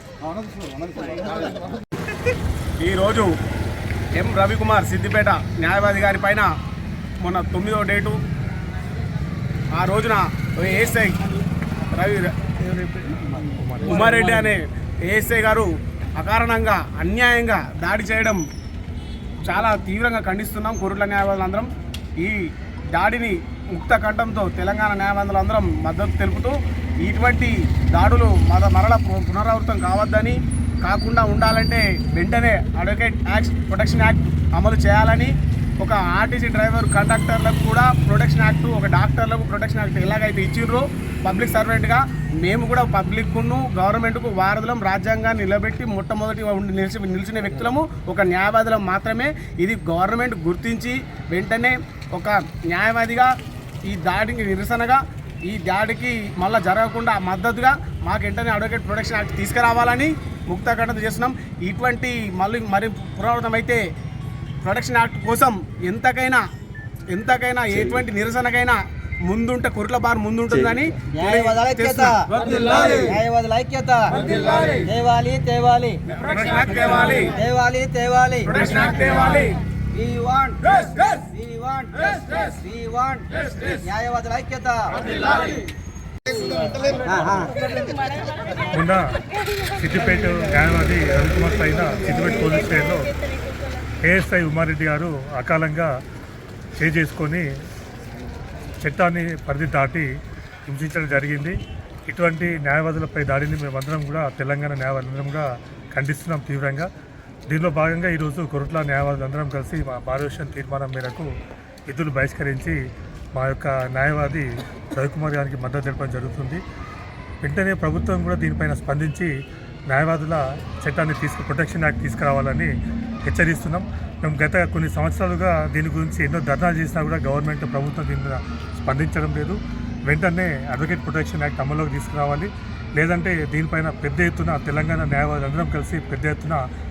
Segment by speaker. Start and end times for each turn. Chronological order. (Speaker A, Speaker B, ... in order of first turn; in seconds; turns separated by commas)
Speaker A: 2.8-3.3, Speaker A: 4.1-6.5, Speaker A: 7.2-8.2, Speaker A: 9.7-11.2, Speaker A: 11.9-12.3, Speaker B: 13.6-14.0, Speaker A: 13.8-18.4, Speaker A: 19.4-53.3, Speaker A: 53.9-63.8, Speaker A: 64.6-66.4, Speaker A: 67.1-72.2, Speaker C: 71.1-76.0, Speaker A: 76.2-77.3, Speaker C: 77.3-78.6, Speaker A: 78.5-79.6, Speaker C: 79.9-85.2, Speaker C: 86.9-87.5, Speaker B: 88.7-93.2, Speaker B: 94.0-95.9, Speaker B: 96.8-97.4, Speaker B: 98.8-100.1, Speaker B: 100.7-106.9, Speaker B: 107.5-111.3, Speaker B: 111.9-112.8, Speaker B: 113.3-116.6, Speaker B: 117.4-119.3, Speaker B: 119.9-122.7, Speaker B: 123.2-136.6